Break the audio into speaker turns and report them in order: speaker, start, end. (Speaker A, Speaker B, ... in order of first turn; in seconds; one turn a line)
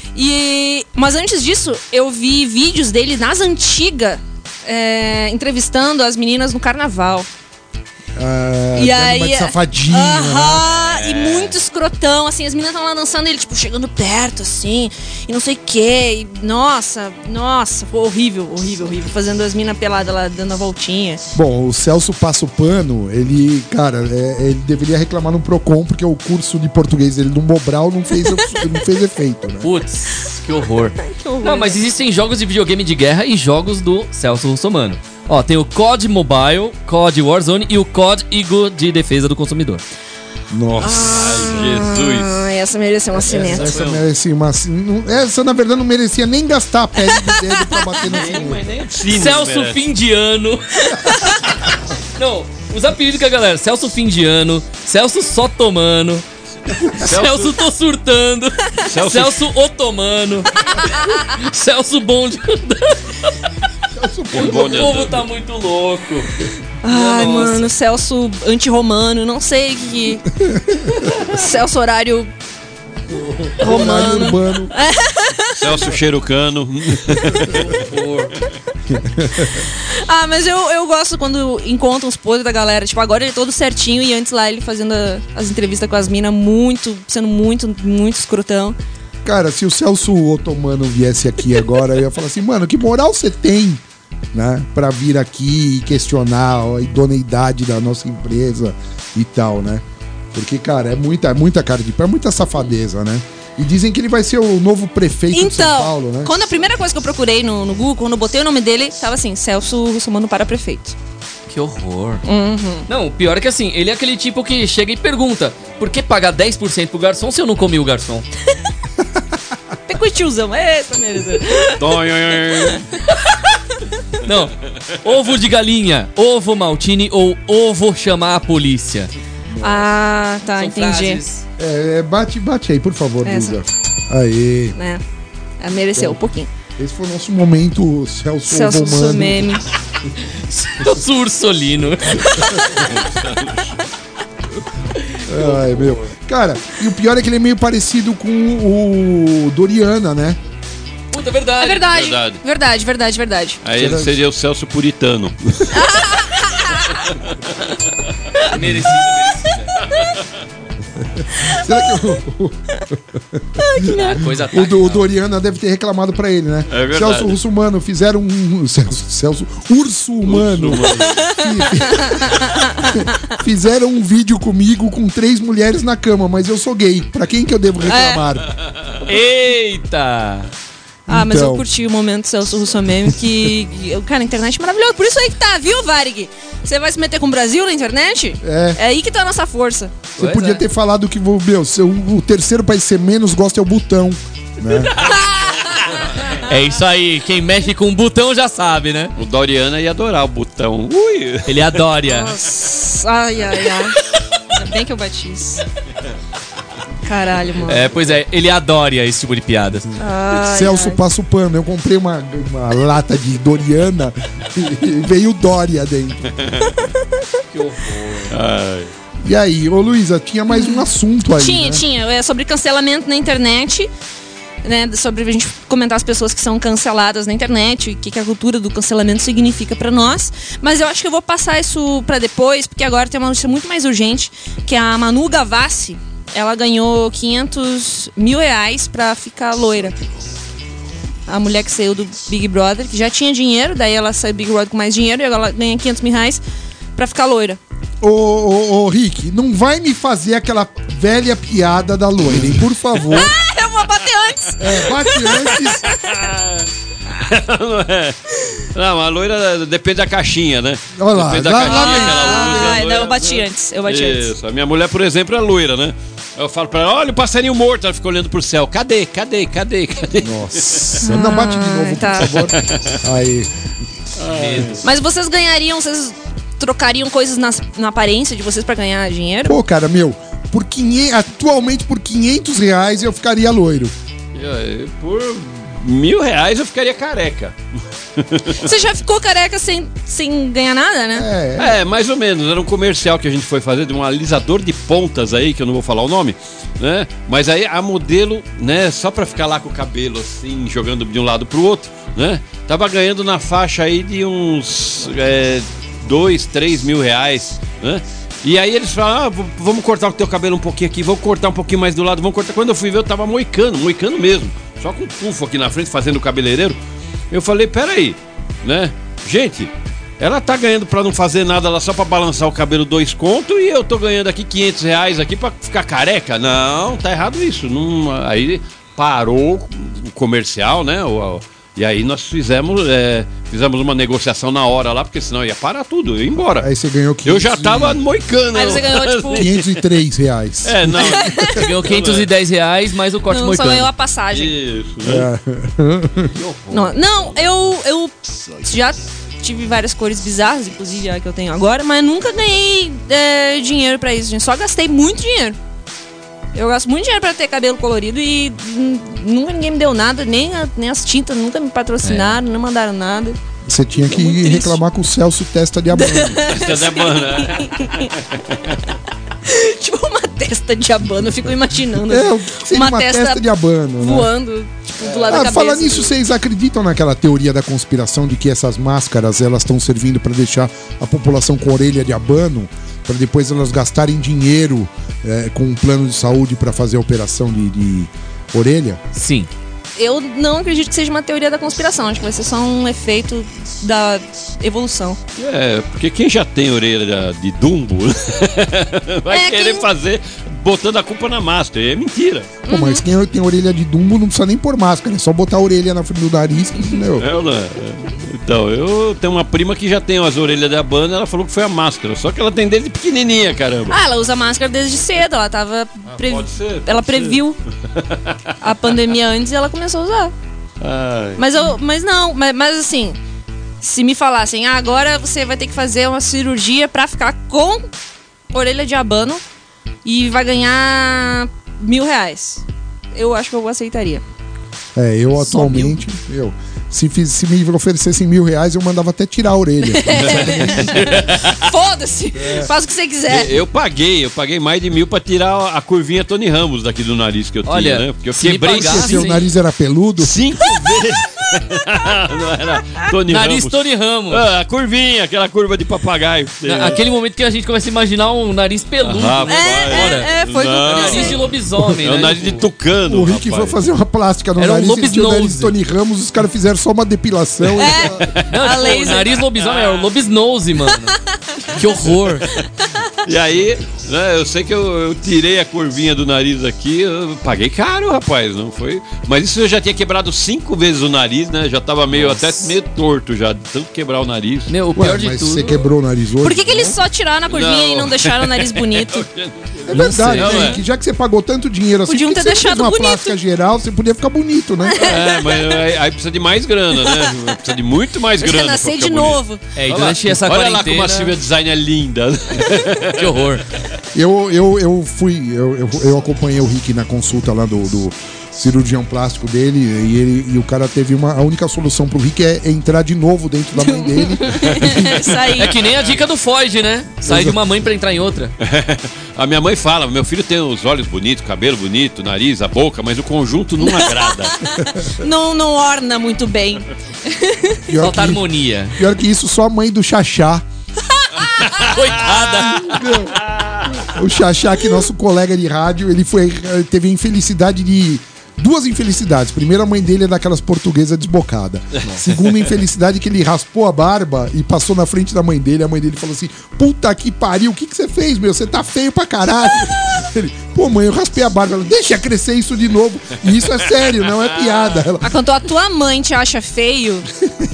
Speaker A: 0.1-7.3
Speaker B: 8.2-10.7
Speaker A: 8.8-21.2
Speaker C: 10.8-11.6
Speaker B: 21.3-29.7
Speaker C: 29.6-39.8
Speaker A: 31.0-31.8
Speaker B: 40.5-41.2
Speaker A: 40.8-43.7
Speaker D: 41.1-42.3
Speaker B: 43.2-48.6
Speaker C: 43.6-44.0
Speaker A: 47.1-48.0
Speaker D: 48.2-49.8
Speaker C: 49.1-50.8
Speaker C: 52.2-56.2
Speaker D: 56.9-57.5
Speaker C: 56.9-60.6
Speaker D: 58.9-59.4
Speaker C: 61.2-63.3
Speaker B: 63.9-65.0
Speaker D: 64.3-65.2
Speaker C: 64.3-66.3
Speaker A: 66.8-70.3
Speaker C: 66.9-67.7
Speaker A: 71.2-72.3
Speaker B: 73.5-74.7
Speaker A: 73.6-75.6
Speaker D: 75.5-77.6
Speaker C: 77.4-78.3
Speaker B: 78.9-79.5
Speaker A: 79.8-88.8
Speaker B: 89.2-106.3
Speaker A: 105.3-111.0
Speaker C: 111.5-112.2
Speaker A: 112.2-112.9
Speaker C: 112.9-118.3
Speaker A: 119.9-122.0
Speaker D: 121.8-122.9
Speaker C: 124.2-129.1
Speaker B: 129.5-129.9
Speaker A: 129.6-131.2
Speaker C: 130.6-131.4
Speaker B: 131.6-134.8
Speaker A: 133.2-133.6
Speaker A: 134.8-135.0
Speaker A: 135.6-136.5
Speaker B: 136.8-139.5
Speaker A: 138.5-139.6
Speaker C: 140.5-142.6
Speaker D: 142.9-143.8
Speaker B: 145.3-150.4
Speaker C: 145.4-146.1
Speaker C: 151.1-151.9
Speaker A: 151.6-153.6
Speaker D: 151.9-152.4
Speaker D: 153.6-155.7
Speaker B: 153.8-154.2
Speaker A: 155.7-156.9
Speaker C: 158.4-159.8
Speaker B: 161.4-163.6
Speaker A: 163.7-164.2
Speaker C: 163.9-165.1
Speaker B: 164.3-172.4
Speaker D: 166.7-167.4
Speaker D: 170.2-171.3
Speaker A: 171.3-173.0
Speaker B: 172.9-178.5
Speaker A: 177.9-178.2
Speaker C: 179.1-180.5
Speaker B: 181.1-181.7
Speaker A: 181.1-190.0
Speaker B: 188.4-188.8
Speaker C: 190.2-190.6
Speaker B: 190.2-194.9
Speaker C: 196.4-199.1
Speaker D: 199.2-201.8
Speaker C: 201.5-202.3
Speaker A: 202.0-205.6
Speaker A: 207.1-207.9
Speaker C: 207.7-209.9
Speaker A: 210.0-211.0
Speaker B: 210.3-216.3
Speaker C: 217.5-218.3
Speaker D: 218.3-218.9
Speaker B: 219.2-221.8
Speaker A: 220.5-220.8
Speaker A: 221.4-223.9
Speaker A: 224.6-240.0
Speaker A: 241.3-246.4
Speaker A: 246.9-247.6
Speaker B: 248.0-253.3
Speaker A: 253.1-255.5
Speaker B: 254.6-255.9
Speaker D: 255.9-258.2
Speaker D: 258.7-271.0
Speaker B: 261.0-262.8
Speaker A: 261.6-264.3
Speaker B: 270.2-273.5
Speaker A: 271.0-272.4
Speaker D: 272.5-273.0
Speaker D: 274.2-274.8
Speaker C: 274.3-274.8
Speaker A: 274.8-279.6
Speaker B: 279.4-283.9
Speaker D: 284.4-287.6
Speaker D: 288.2-288.6
Speaker A: 288.6-291.3
Speaker B: 291.1-291.8
Speaker D: 291.6-316.8
Speaker D: 317.3-336.7
Speaker B: 336.6-338.0
Speaker D: 337.2-339.7
Speaker A: 338.5-339.5
Speaker B: 339.3-341.4
Speaker D: 340.6-342.3
Speaker A: 341.0-341.6
Speaker C: 341.6-343.9
Speaker A: 343.3-344.6
Speaker D: 344.3-345.3
Speaker B: 345.0-346.3
Speaker C: 346.4-347.0
Speaker A: 346.7-355.6
Speaker A: 356.5-363.4
Speaker C: 362.0-362.4
Speaker B: 363.7-366.5
Speaker A: 364.0-364.8
Speaker A: 365.9-368.1
Speaker D: 366.5-368.7
Speaker A: 369.4-373.4
Speaker B: 372.1-374.3
Speaker A: 374.0-376.1
Speaker B: 375.3-389.0
Speaker C: 389.1-389.5
Speaker A: 390.0-395.2
Speaker D: 395.4-402.5
Speaker A: 399.3-399.9
Speaker A: 402.7-403.0
Speaker B: 402.7-407.3
Speaker D: 407.2-414.0
Speaker A: 413.9-417.6
Speaker D: 416.1-417.4
Speaker D: 418.0-418.3
Speaker A: 418.6-420.3
Speaker D: 420.8-421.4
Speaker A: 421.4-423.2
Speaker A: 423.8-427.9
Speaker A: 428.5-429.4
Speaker A: 430.1-434.2
Speaker B: 434.9-441.0
Speaker A: 435.4-435.9
Speaker A: 439.9-443.5
Speaker D: 440.1-441.5
Speaker B: 442.4-442.7
Speaker D: 443.3-449.3
Speaker C: 447.7-449.5
Speaker B: 448.7-450.4
Speaker D: 450.2-453.8
Speaker C: 453.3-454.4
Speaker D: 454.3-457.0
Speaker C: 456.6-460.3
Speaker D: 459.0-461.4
Speaker A: 459.5-461.4
Speaker C: 460.9-462.7
Speaker D: 462.0-463.8
Speaker B: 463.1-468.2
Speaker C: 464.6-465.7
Speaker A: 467.8-469.4
Speaker D: 468.2-470.1
Speaker C: 468.5-471.2
Speaker C: 471.7-472.5
Speaker D: 473.2-484.7
Speaker C: 482.1-482.4
Speaker C: 484.7-485.8
Speaker B: 484.9-487.0
Speaker A: 486.4-489.3
Speaker D: 487.5-490.8
Speaker B: 489.9-495.1
Speaker C: 489.9-490.7
Speaker A: 492.1-493.4
Speaker A: 494.9-495.8
Speaker D: 495.0-503.3
Speaker A: 498.4-499.6
Speaker C: 499.8-501.3
Speaker C: 503.2-503.6
Speaker B: 504.1-515.3
Speaker A: 513.8-515.8
Speaker C: 515.6-518.5
Speaker B: 517.3-517.6
Speaker D: 518.6-524.6
Speaker A: 523.8-527.8
Speaker B: 527.9-530.6
Speaker C: 528.0-529.0
Speaker A: 531.1-532.0
Speaker C: 531.8-532.9
Speaker B: 532.8-533.4
Speaker D: 533.5-533.9
Speaker B: 534.0-555.3
Speaker A: 555.2-557.3